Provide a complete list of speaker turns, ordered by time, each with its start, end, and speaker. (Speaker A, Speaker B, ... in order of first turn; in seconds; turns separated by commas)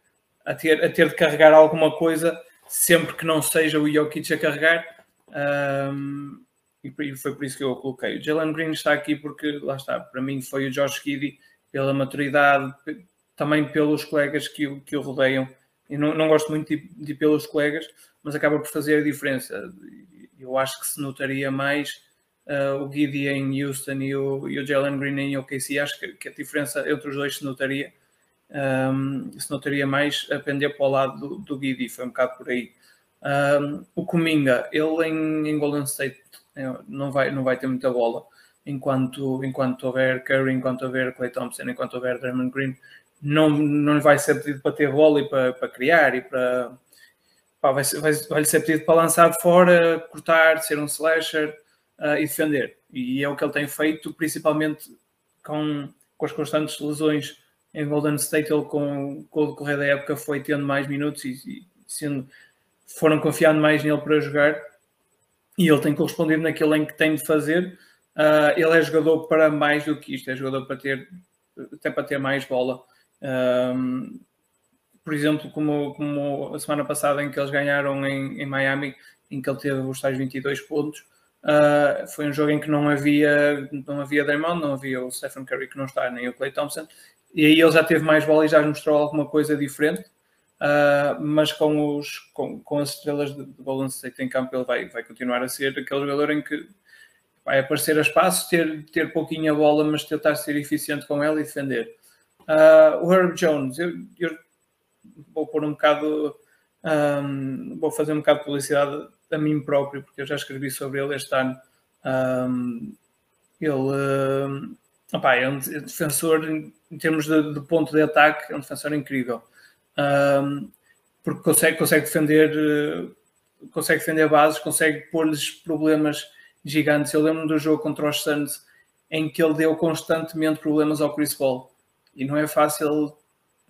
Speaker A: 0.5-27.9, Speaker A: 28.5-46.8, Speaker A: 47.6-54.9, Speaker A: 55.4-62.3, Speaker A: 62.9-64.6, Speaker A: 65.6-74.2, Speaker A: 75.0-96.7, Speaker A: 97.4-101.9, Speaker A: 102.5-104.4, Speaker A: 105.3-113.0, Speaker A: 113.6-119.4, Speaker A: 120.0-120.7, Speaker A: 121.2-123.1, Speaker A: 123.7-133.2